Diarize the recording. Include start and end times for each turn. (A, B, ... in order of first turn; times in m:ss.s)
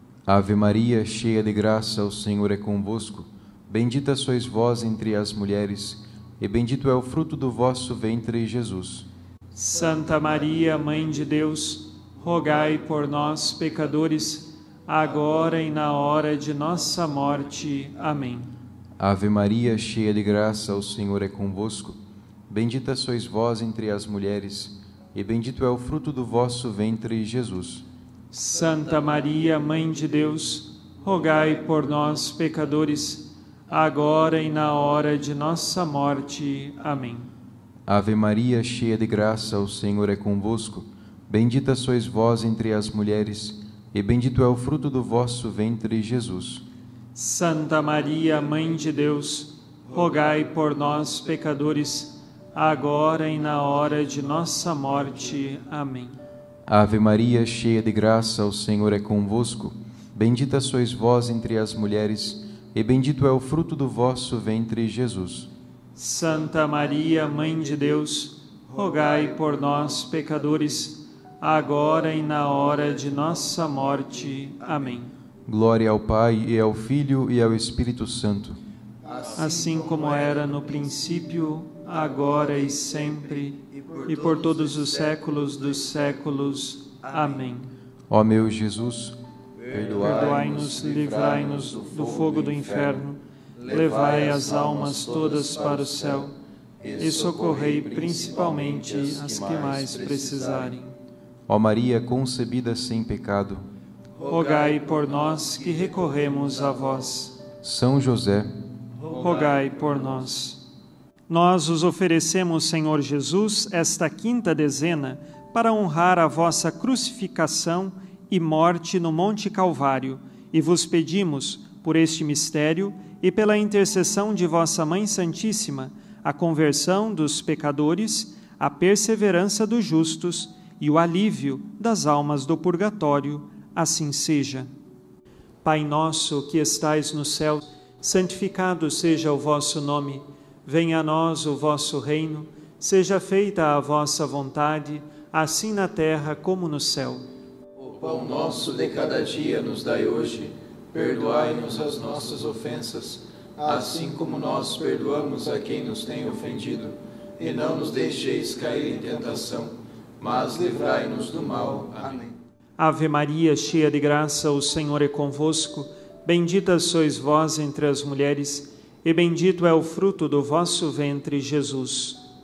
0:00.2-0:09.1 A
0:09.5-0:18.5 B
0:19.0-0:22.0 A
0:22.5-0:27.8 A
0:28.3-0:37.3 B
0:37.9-0:46.6 A
0:47.1-0:56.2 B
0:56.7-1:05.5 A
1:06.0-1:15.1 B
1:15.5-1:18.6 A
1:19.4-1:27.7 B
1:28.1-1:29.2 A
1:29.8-1:36.3 B
1:36.8-1:40.9 B
1:41.5-1:43.6 A
1:44.2-1:47.3 B
1:47.6-1:48.5 A
1:49.1-1:50.6 B
1:51.3-2:14.7 B
2:15.6-2:27.2 B
2:27.9-2:42.3 C
2:42.8-2:52.2 B